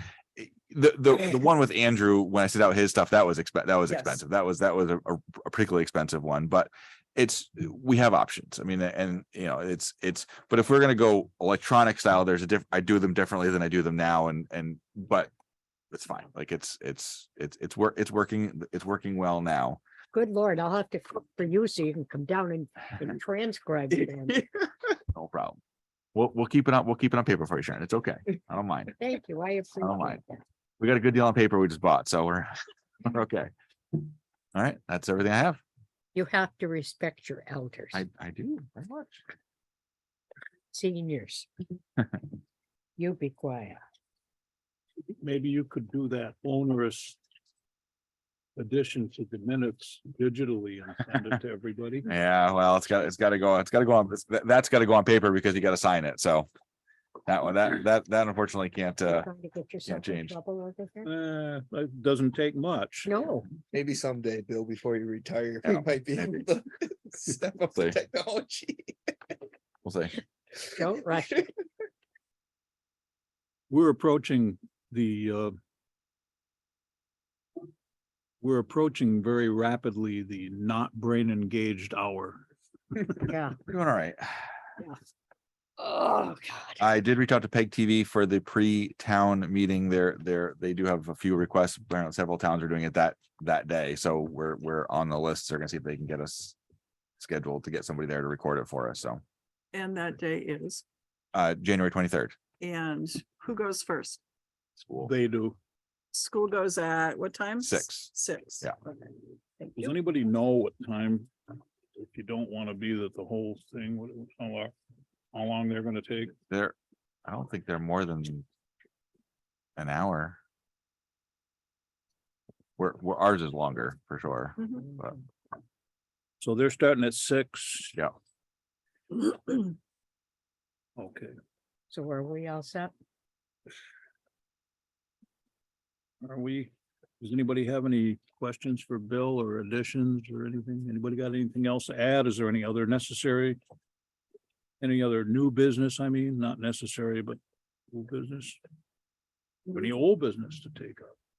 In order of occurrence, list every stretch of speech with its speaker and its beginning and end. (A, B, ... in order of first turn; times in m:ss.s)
0:00.4-0:15.3 A
0:15.9-0:19.8 A
0:20.1-0:24.4 B
0:25.1-0:25.6 A
0:26.1-0:29.0 A
0:29.0-0:30.4 B
0:29.8-0:30.2 A
0:30.8-0:32.5 A
0:33.0-0:33.5 A
0:34.6-0:35.6 A
0:36.2-0:38.0 B
0:37.9-0:39.2 A
0:40.7-0:41.5 B
0:43.0-0:43.8 B
0:45.2-0:47.2 C
0:48.6-0:52.1 C
0:52.1-0:56.5 A
0:57.3-0:59.3 A
0:59.1-1:01.1 B
0:59.8-1:00.4 A
1:01.0-1:03.1 C
1:03.1-1:03.5 B
1:03.7-1:09.0 D
1:05.6-1:06.4 A
1:09.8-1:10.2 A
1:10.7-1:11.5 D
1:10.8-1:11.4 B
1:13.7-1:15.6 C
1:18.4-1:22.5 C
1:23.2-1:23.6 B
1:23.7-1:24.5 A
1:25.8-1:26.8 B
1:26.8-1:36.6 A
1:37.2-1:39.2 A
1:39.7-1:40.8 E
1:41.3-1:42.4 A
1:42.6-1:44.2 E
1:44.8-1:45.1 A
1:45.0-1:45.6 C
1:46.1-1:48.7 E
1:47.6-1:48.1 A
1:49.8-1:51.3 C
1:52.0-1:54.7 C
1:55.3-1:56.3 C
1:56.5-1:58.5 A
1:59.8-2:00.4 A
2:02.8-2:05.2 A
2:06.4-2:08.0 C
2:11.0-2:11.3 C
2:11.9-2:12.9 B
2:16.2-2:23.6 C
2:24.8-2:27.4 C
2:27.9-2:28.6 C
2:29.7-2:31.1 C